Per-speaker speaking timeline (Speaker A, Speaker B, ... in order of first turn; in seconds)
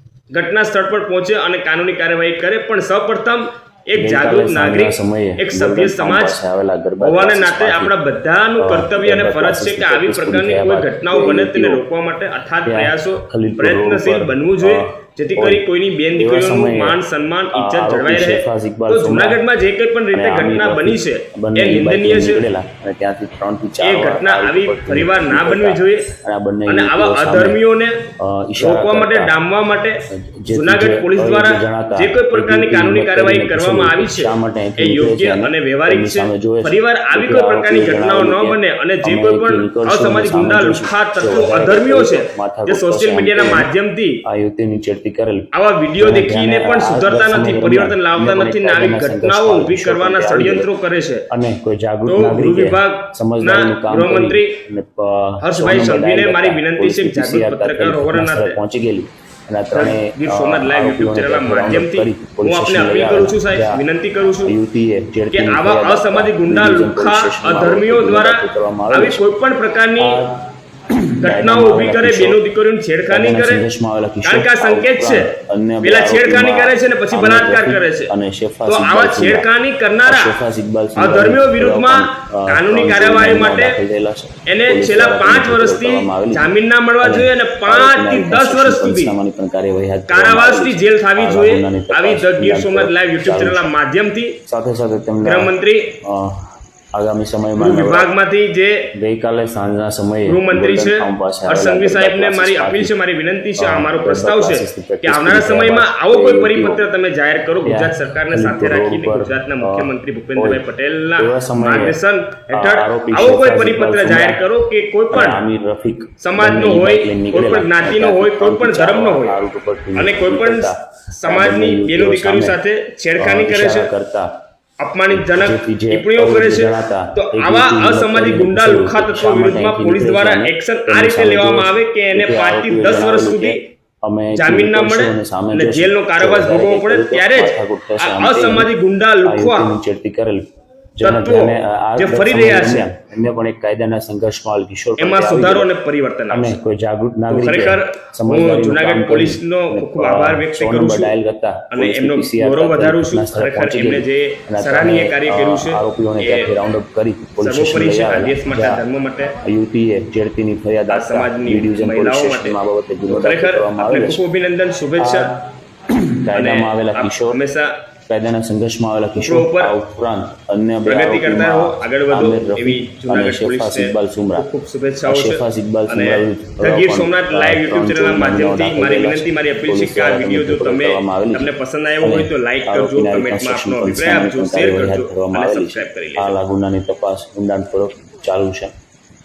Speaker A: 0.3-6.4, 7.0-22.5, 23.8-26.1, 26.7-28.0, 28.6-44.2, 45.5-51.3, 52.0-54.6, 55.4-58.6, 59.7-64.6, 65.3-70.2, 71.2-73.7, 74.2-75.3, 75.8-78.1, 78.7-80.3, 81.0-83.8, 84.5-89.2, 90.1-94.4, 95.2-95.9, 97.6-98.9, 100.3-115.4, 116.2-119.4, 120.0-123.9, 124.8-133.6, 134.3-139.8, 141.0-142.9, 145.0-146.6, 147.3-151.2, 151.7-156.6, 157.4-159.4, 160.9-165.3, 166.3-167.7, 169.2-169.7, 170.9-186.4
Speaker B: 4.0-7.9, 8.6-11.8, 12.7-17.0, 17.5-19.4, 20.1-27.6, 28.2-29.3, 30.1-43.7, 44.3-45.5, 46.0-50.7, 51.3-63.8, 64.5-69.4, 70.0-72.4, 73.1-79.5, 80.0-93.7, 94.5-98.1, 99.0-103.0, 103.6-106.8, 107.6-112.0, 112.5-114.5, 115.1-122.6, 123.2-124.3, 125.1-138.7, 139.2-140.5, 141.0-145.7, 146.3-158.8, 159.4-164.2, 165.0-167.4, 168.1-174.5, 175.0-188.7